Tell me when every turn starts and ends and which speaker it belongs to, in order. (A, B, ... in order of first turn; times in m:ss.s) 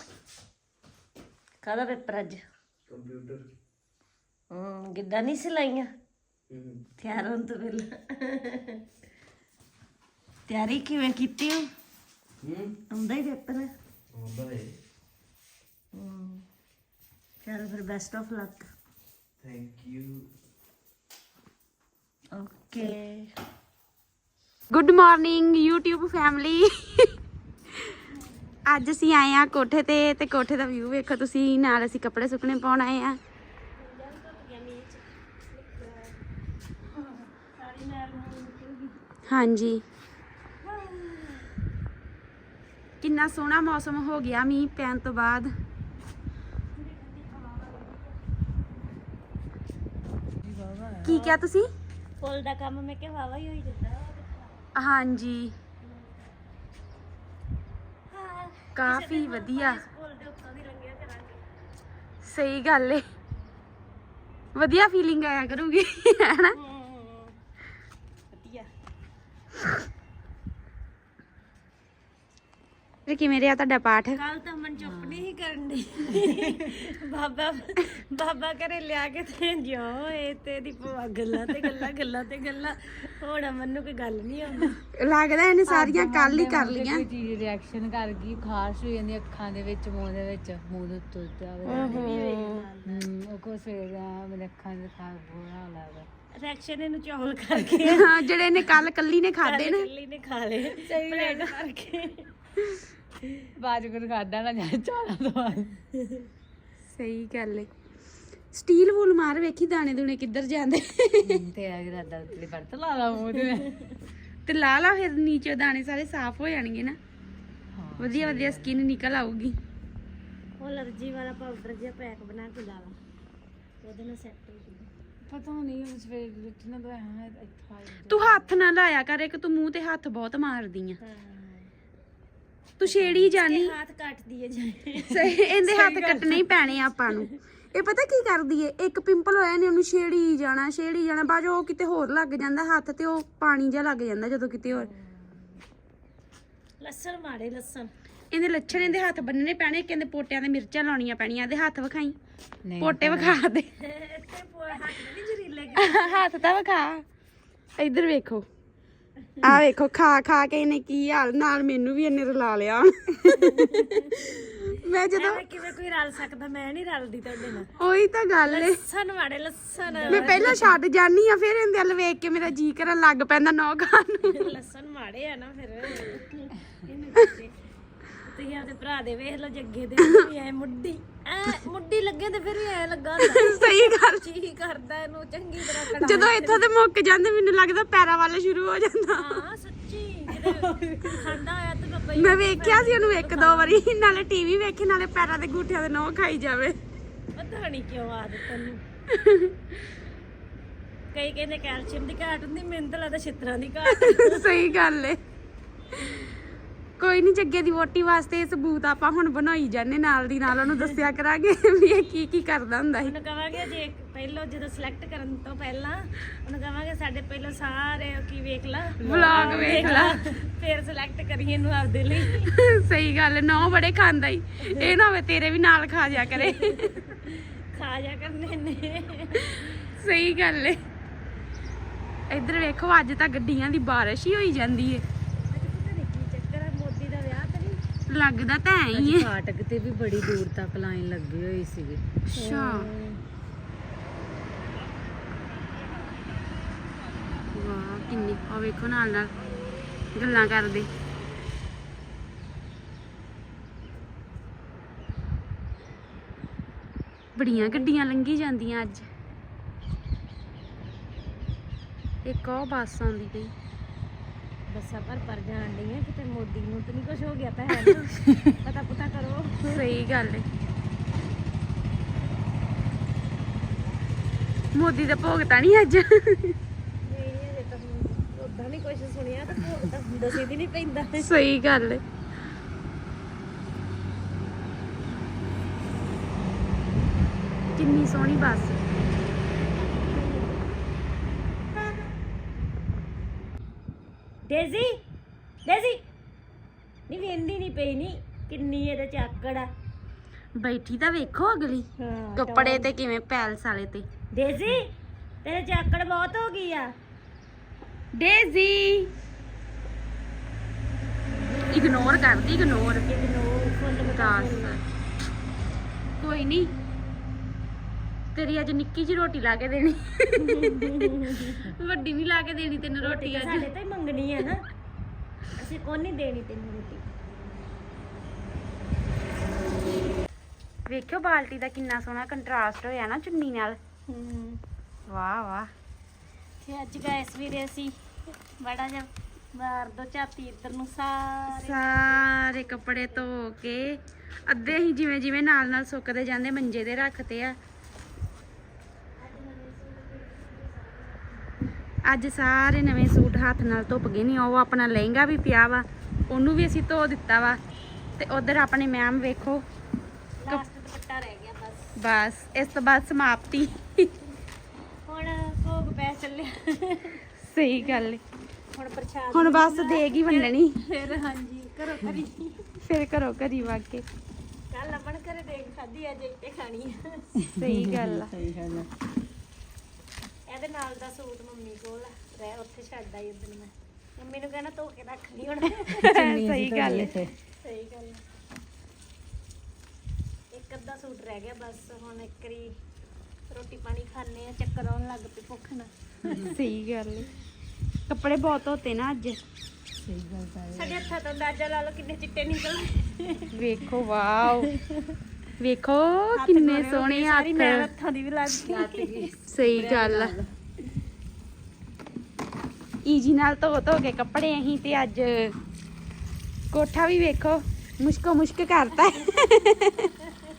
0:01.6-0:02.4 A
0:02.9-0:03.4 B
0:04.5-0:05.9 A
0:06.5-0:06.8 B
0:07.0-0:08.8 A
0:10.5-0:11.7 A
0:12.4-0:12.8 B
0:12.9-0:13.7 A
0:14.1-0:14.7 B
0:15.9-0:16.4 A
0:17.4-0:18.7 A
0:19.4-0:20.3 B
0:22.4-0:23.3 A
0:24.7-0:27.1 C
0:28.7-0:33.2 C
0:33.8-0:36.2 A
0:37.0-0:39.0 A
0:39.3-0:39.8 C
0:40.6-0:41.5 A
0:43.0-0:45.5 C
0:46.7-0:48.2 A
0:50.4-0:51.1 D
0:51.0-0:51.7 C
0:51.0-0:51.4 A
0:52.2-0:54.7 A
0:54.8-0:55.5 C
0:58.1-1:01.4 A
0:58.8-0:59.8 C
1:02.2-1:03.0 C
1:04.6-1:06.6 C
1:06.6-1:07.3 A
1:08.3-1:08.7 A
1:13.1-1:14.2 C
1:14.2-1:24.8 A
1:14.8-1:15.3 D
1:16.1-1:16.7 D
1:25.0-1:27.0 C
1:25.7-1:32.2 D
1:31.6-1:32.6 C
1:31.7-1:33.1 A
1:32.8-1:36.1 D
1:36.3-1:38.1 A
1:37.9-1:39.9 C
1:39.4-1:42.3 A
1:40.7-1:41.6 D
1:43.2-1:43.5 A
1:43.6-1:45.8 D
1:46.0-1:46.3 A
1:46.9-1:47.7 C
1:48.5-1:51.4 C
1:51.2-1:53.9 D
1:54.5-1:57.0 C
1:57.7-1:58.7 D
1:58.0-1:59.6 C
2:00.6-2:03.0 A
2:03.8-2:04.9 A
2:05.3-2:08.6 D
2:08.1-2:11.0 C
2:11.0-2:11.7 A
2:12.8-2:13.7 C
2:12.8-2:13.3 D
2:13.3-2:15.3 A
2:15.1-2:24.9 C
2:15.2-2:16.6 D
2:17.0-2:17.3 A
2:26.8-2:27.9 A
2:28.3-2:32.2 C
2:32.6-2:33.4 D
2:32.8-2:33.7 C
2:33.8-2:36.2 A
2:35.8-2:37.0 C
2:37.8-2:38.5 C
2:39.4-2:45.4 C
2:43.4-2:47.7 A
2:47.8-2:48.8 C
2:48.5-2:50.8 A
2:49.9-2:50.7 D
2:50.1-2:54.5 C
2:54.2-2:57.5 A
2:58.2-3:06.7 A
3:03.2-3:04.3 C
3:05.8-3:09.4 C
3:09.1-3:13.9 A
3:10.4-3:11.2 D
3:12.2-3:16.8 C
3:17.4-3:18.8 A
3:19.1-3:19.5 C
3:21.1-3:24.5 A
3:23.9-3:25.2 C
3:27.0-3:33.1 C
3:33.0-3:42.5 A
3:39.0-3:40.2 C
3:39.1-3:40.1 D
3:42.4-3:47.2 C
3:44.6-3:44.9 A
3:46.2-3:49.8 A
3:49.5-3:50.8 C
3:52.3-3:55.0 C
3:55.5-3:57.8 A
3:58.1-3:59.3 C
3:58.9-4:03.2 D
4:02.3-4:02.9 C
4:07.5-4:09.3 C
4:10.1-4:10.9 C
4:17.4-4:19.1 C
4:17.5-4:17.9 A
4:22.2-4:23.5 C
4:24.7-4:29.8 A
4:29.7-4:30.4 C
4:34.7-4:36.6 C
4:37.0-4:41.3 A
4:41.2-4:42.0 C
4:47.8-4:48.7 C
4:49.9-4:50.6 A
4:54.4-4:55.0 A
4:55.6-4:56.0 A
4:57.1-4:59.7 A
5:00.6-5:04.1 C
5:02.0-5:02.9 A
5:04.3-5:04.9 A
5:05.4-5:06.9 A
5:08.2-5:09.1 C
5:11.7-5:13.1 C
5:13.0-5:14.8 A
5:14.0-5:14.8 C
5:16.2-5:16.7 C
5:18.3-5:23.7 C
5:20.4-5:21.6 A
5:23.0-5:24.7 A
5:25.6-5:27.1 A
5:30.9-5:33.8 C
5:34.1-5:34.6 A
5:35.1-5:35.7 C
5:36.6-5:38.0 A
5:38.5-5:43.2 A
5:41.5-5:47.6 C
5:49.2-5:51.8 A
5:52.0-5:57.6 C
5:58.2-5:59.6 C
6:00.4-6:01.9 A
6:02.0-6:04.1 C
6:05.0-6:07.2 A
6:07.4-6:08.2 C
6:08.7-6:12.7 A
6:09.3-6:10.7 C
6:12.8-6:14.0 C
6:14.7-6:17.4 A
6:17.5-6:18.9 D
6:17.6-6:18.3 C
6:20.5-6:26.1 A
6:25.9-6:27.2 C
6:26.0-6:27.4 D
6:27.6-6:28.2 A
6:30.5-6:32.8 A
6:33.5-6:36.5 A
6:36.2-6:36.5 D
6:36.4-6:37.3 C
6:38.1-6:39.4 C
6:40.0-6:41.1 D
6:40.7-6:43.5 A
6:43.5-6:44.7 C
6:44.6-6:45.2 A
6:45.6-6:47.9 C
6:46.3-6:49.3 A
6:48.5-6:50.5 D
6:49.5-6:50.4 C
6:53.0-6:55.6 C
6:56.7-7:00.1 C